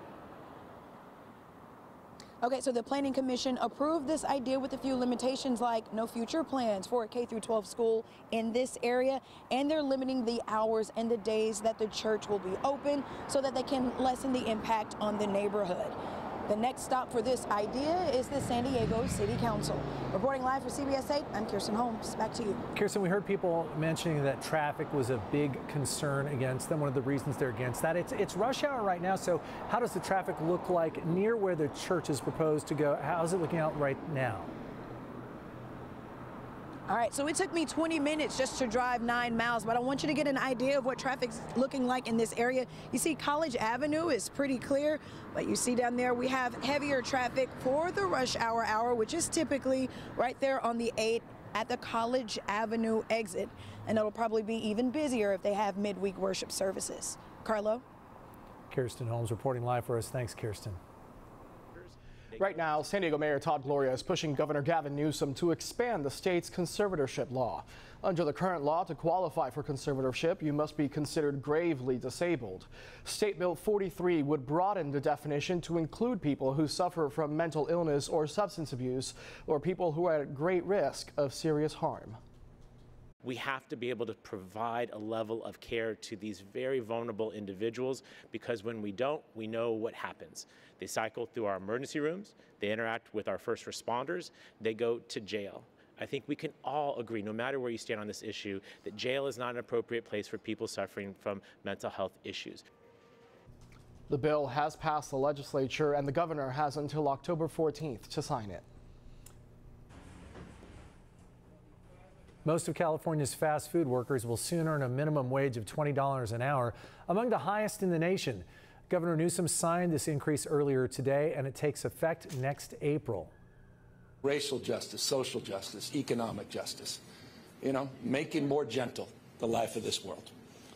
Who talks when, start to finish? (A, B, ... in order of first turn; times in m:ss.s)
0:02.4-0:22.6 A
0:22.7-0:34.5 B
0:36.9-0:57.8 A
0:58.7-1:00.8 B
1:01.8-1:04.1 C
1:02.4-1:22.2 D
1:23.2-1:42.6 C
1:44.1-1:48.6 D
1:52.4-2:03.3 B
2:04.2-2:07.0 E
2:07.6-2:10.3 E